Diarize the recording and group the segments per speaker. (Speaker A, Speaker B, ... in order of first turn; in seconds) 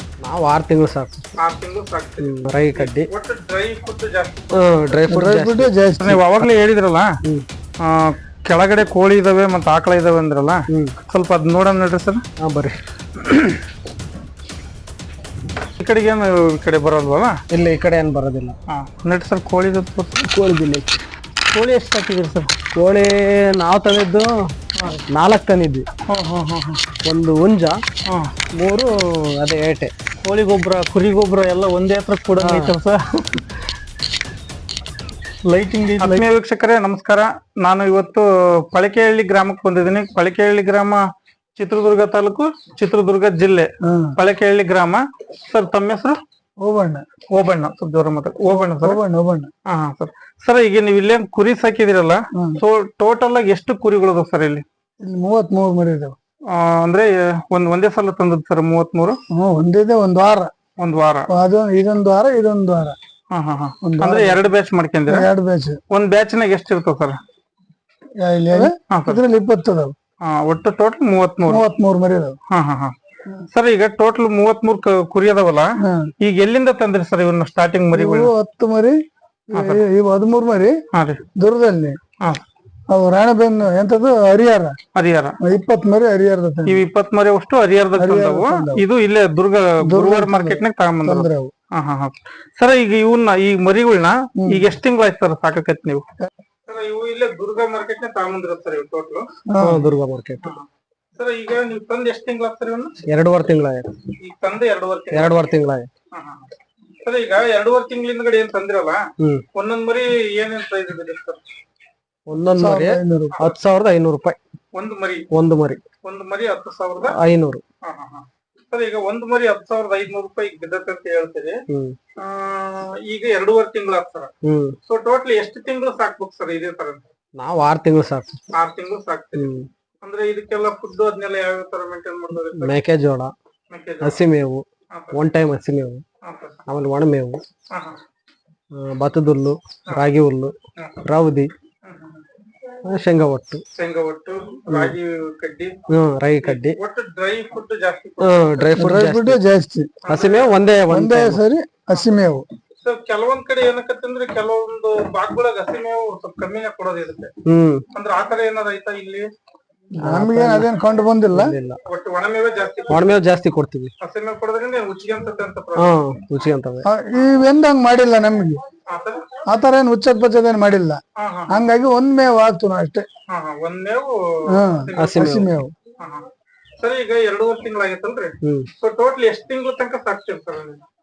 Speaker A: 0.2-1.2, 2.2-3.1, 4.5-5.7, 12.4-12.8, 17.5-18.6, 20.2-20.9, 22.8-24.3, 25.1-25.9, 27.1-27.8, 28.6-29.9, 32.4-32.8, 99.6-100.5, 103.1-103.9, 105.1-105.9, 112.3-114.4, 115.3-115.8, 117.2-117.6, 121.7-122.0, 124.4-124.8, 127.4-128.4, 129.3-129.7, 132.6-133.3, 134.0-136.0, 136.7-137.4, 138.7-140.5, 141.1-141.5, 142.8-143.6, 144.7-144.9, 145.9-146.8, 148.2-149.4, 150.1-151.4, 157.5-157.8, 160.0-160.7, 161.3-161.8, 162.9-163.9, 165.8-166.8, 175.0-175.5, 178.4-178.7
Speaker B: 1.4-5.0, 6.0-7.2, 7.8-12.2, 15.8-17.4, 18.7-20.2, 21.5-22.5, 26.1-26.8, 30.3-33.0, 36.0-41.0, 41.6-46.2, 47.3-49.0, 49.7-54.6, 56.5-59.2, 60.8-61.3, 63.3-65.3, 65.9-67.2, 68.5-69.2, 70.2-71.6, 72.5-72.9, 73.5-75.7, 76.2-78.3, 79.5-79.8, 80.9-81.2, 85.0-85.4, 86.7-96.0, 96.7-99.3, 100.4-103.0, 104.2-105.4, 106.1-106.5, 107.0-109.0, 109.5-111.4, 114.7-115.2, 116.0-117.2, 117.8-121.6, 122.2-124.3, 124.9-127.0, 128.5-129.5, 130.0-132.8, 133.7-134.2, 134.9-135.2, 136.2-136.6, 137.7-138.0, 141.8-142.2, 143.8-145.8, 146.4-148.4, 150.0-150.6, 152.8-157.3, 157.9-159.3, 161.9-163.1, 164.0-166.0, 168.9-169.3, 171.2-171.6, 173.3-175.4, 176.0-176.3, 176.8-180.8
Speaker C: 5.1-6.2, 35.5-36.2, 43.9-44.1, 46.6-47.0, 48.5-49.5, 55.0-56.2, 59.4-60.5, 61.3-63.0, 63.8-64.4, 65.1-65.8, 68.2-70.0, 71.5-72.4, 75.8-76.1, 77.9-79.0, 79.5-80.7, 81.4-82.0, 82.9-84.8, 85.4-86.8, 88.0-88.8, 89.8-91.5, 94.4-94.6, 99.5-99.8, 112.6-113.3, 148.8-149.9, 150.9-152.5, 160.0-161.5, 166.9-168.6, 169.5-173.1, 174.5-175.7